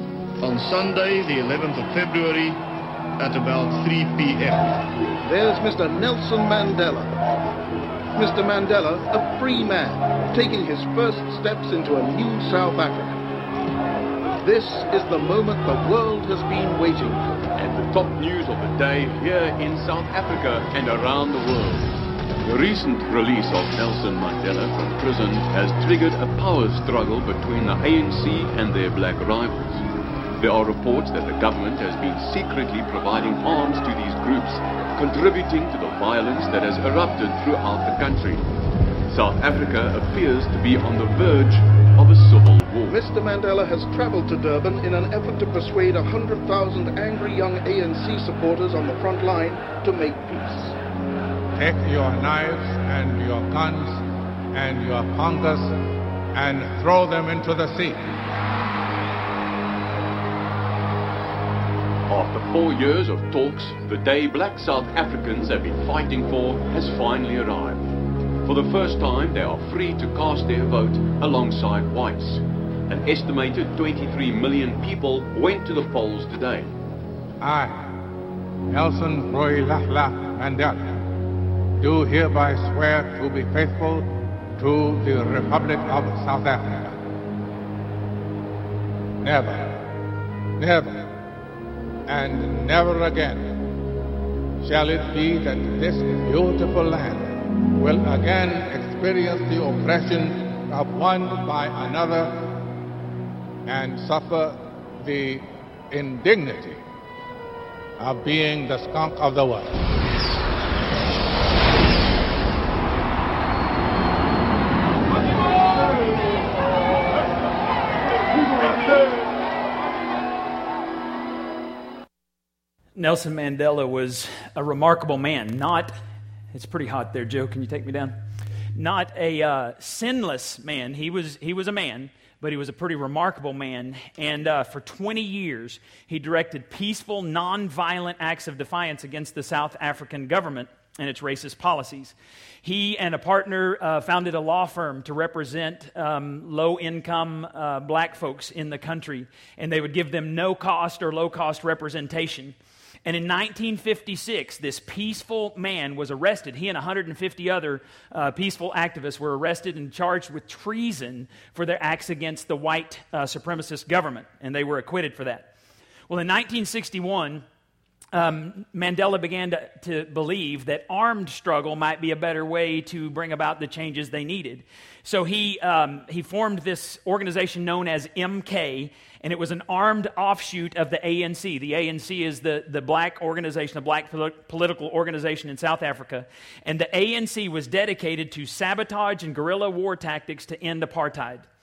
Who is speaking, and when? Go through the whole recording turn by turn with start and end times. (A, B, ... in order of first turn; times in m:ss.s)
0:00.4-0:02.6 A
0:03.2-0:04.8 A
0:05.2-0:07.2 B
0:08.2-0:13.3 B
0:14.4-0:17.4 B
0:17.6-0:29.8 C
0:30.4-0:38.5 C
0:39.1-0:43.0 C
0:42.9-0:50.8 B
0:51.6-0:55.8 D
0:56.3-0:58.2 D
1:02.1-1:16.7 C
1:17.4-1:18.0 D
1:18.7-1:21.0 D
1:21.8-1:27.1 D
1:29.2-1:30.0 D
1:30.6-1:31.2 D
1:32.1-1:33.7 D
1:34.6-1:42.7 D
1:43.7-1:46.8 D
1:48.0-1:49.8 D
2:03.0-2:06.0 E
2:06.5-2:08.2 E
2:08.8-2:45.5 E
2:46.1-2:47.4 E
2:48.1-3:11.5 E